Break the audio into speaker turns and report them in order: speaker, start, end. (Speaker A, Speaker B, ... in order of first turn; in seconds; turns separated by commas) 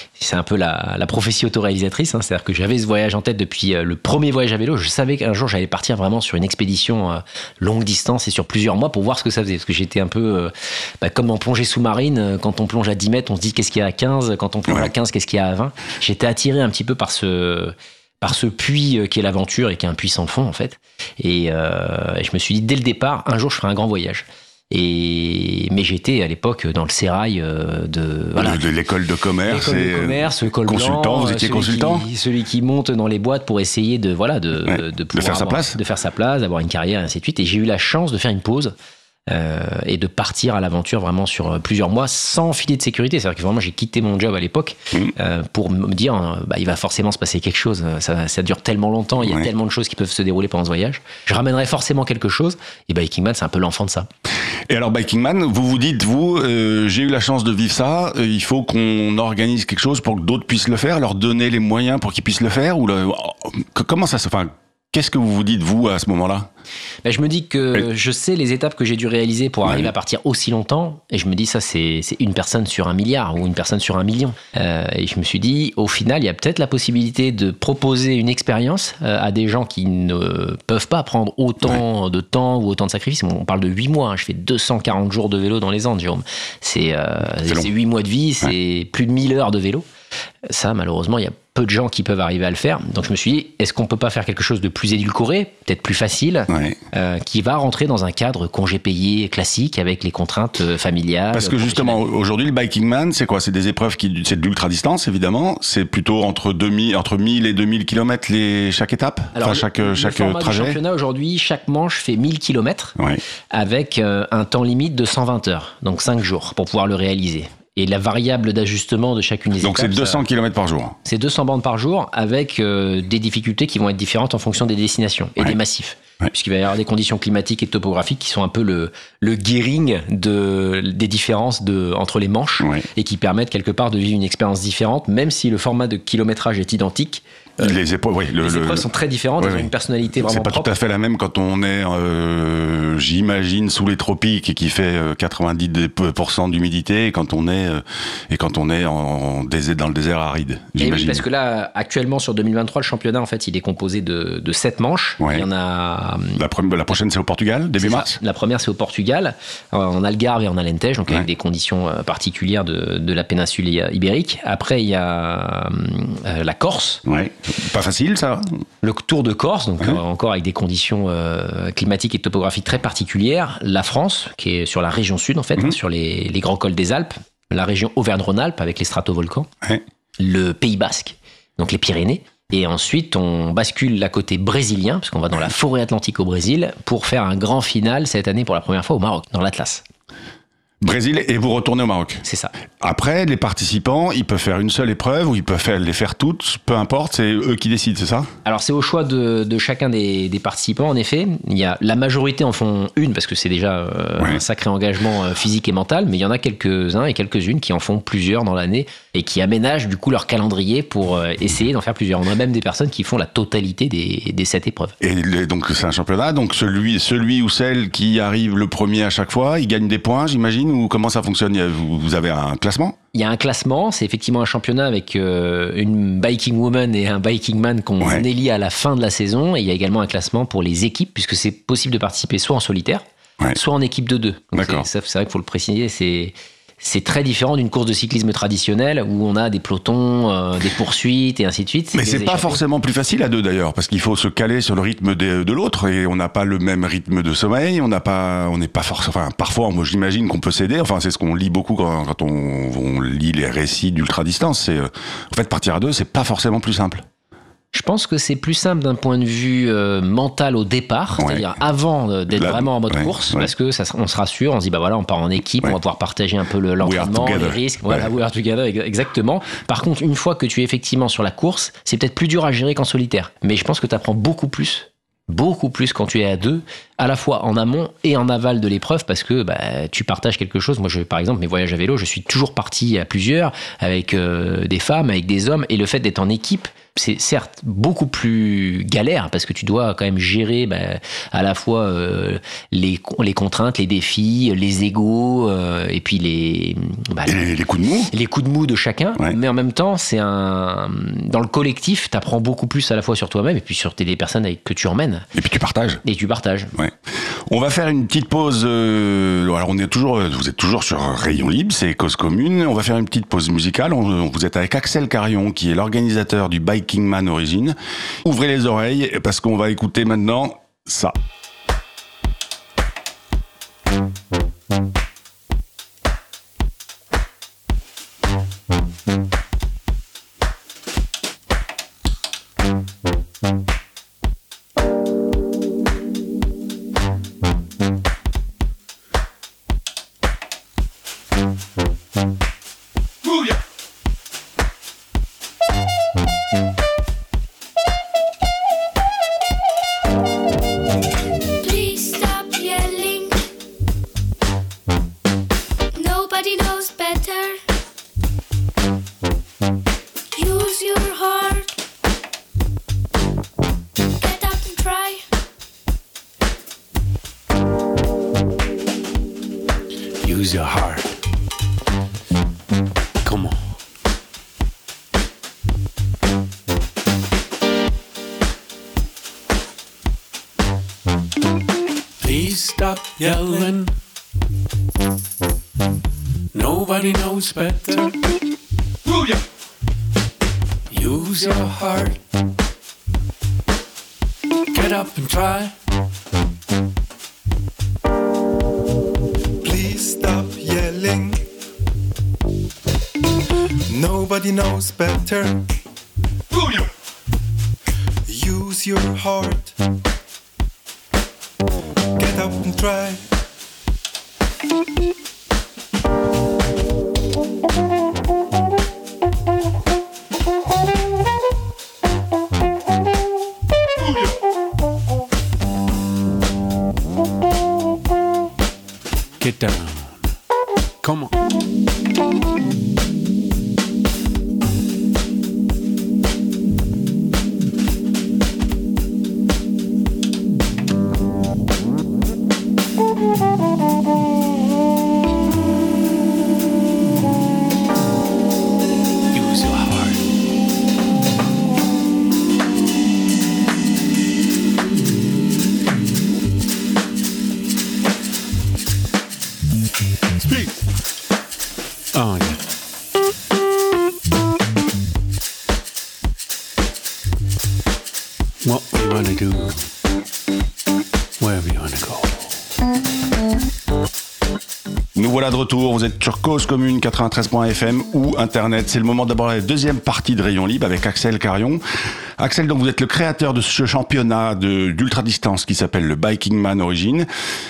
Speaker A: 0.2-28.6, Speaker B: 28.4-32.0, Speaker A: 29.4-38.7, Speaker B: 34.6-35.8, Speaker A: 39.3-54.1, Speaker B: 49.2-49.5, Speaker B: 54.7-66.5, Speaker A: 67.0-89.8, Speaker B: 87.4-87.7, Speaker A: 90.5-102.0, Speaker B: 96.5-96.8, Speaker B: 101.3-110.8, Speaker A: 109.3-112.9, Speaker A: 113.5-120.2, Speaker B: 119.6-121.0, Speaker A: 121.0-137.8, Speaker B: 132.6-132.8, Speaker B: 137.6-138.9, Speaker A: 138.4-140.7, Speaker B: 139.4-151.2, Speaker A: 150.8-156.4, Speaker B: 155.2-155.4, Speaker B: 156.3-158.2, Speaker A: 157.8-167.0, Speaker B: 167.0-168.4, Speaker A: 168.8-179.5, Speaker A: 180.2-189.8, Speaker B: 190.8-192.2, Speaker A: 192.2-192.5, Speaker B: 192.8-198.3, Speaker A: 198.4-214.9, Speaker B: 215.0-222.9, Speaker A: 223.1-242.6, Speaker B: 234.5-234.9, Speaker B: 241.9-257.0, Speaker A: 257.7-297.5, Speaker B: 261.2-261.5, Speaker B: 262.3-263.5, Speaker B: 266.8-268.1, Speaker B: 297.2-298.1, Speaker A: 298.1-305.2, Speaker B: 305.3-306.0, Speaker A: 306.0-306.7, Speaker B: 307.5-321.2, Speaker C: 351.6-353.4, Speaker C: 355.9-357.6, Speaker C: 360.3-361.7, Speaker C: 364.2-365.2, Speaker D: 370.2-371.2, Speaker D: 373.2-373.6, Speaker D: 382.2-383.9, Speaker D: 386.5-388.1, Speaker D: 389.1-389.4, Speaker D: 390.9-392.2, Speaker D: 394.7-395.7, Speaker E: 399.6-401.4, Speaker E: 403.9-405.6, Speaker E: 406.6-406.8, Speaker E: 408.3-409.7, Speaker E: 412.2-413.2, Speaker D: 429.4-430.3, Speaker D: 431.0-431.3, Speaker D: 449.3-450.3, Speaker D: 462.1-462.6, Speaker D: 468.6-469.9, Speaker D: 471.4-472.4, Speaker B: 475.1-481.8, Speaker B: 482.4-487.2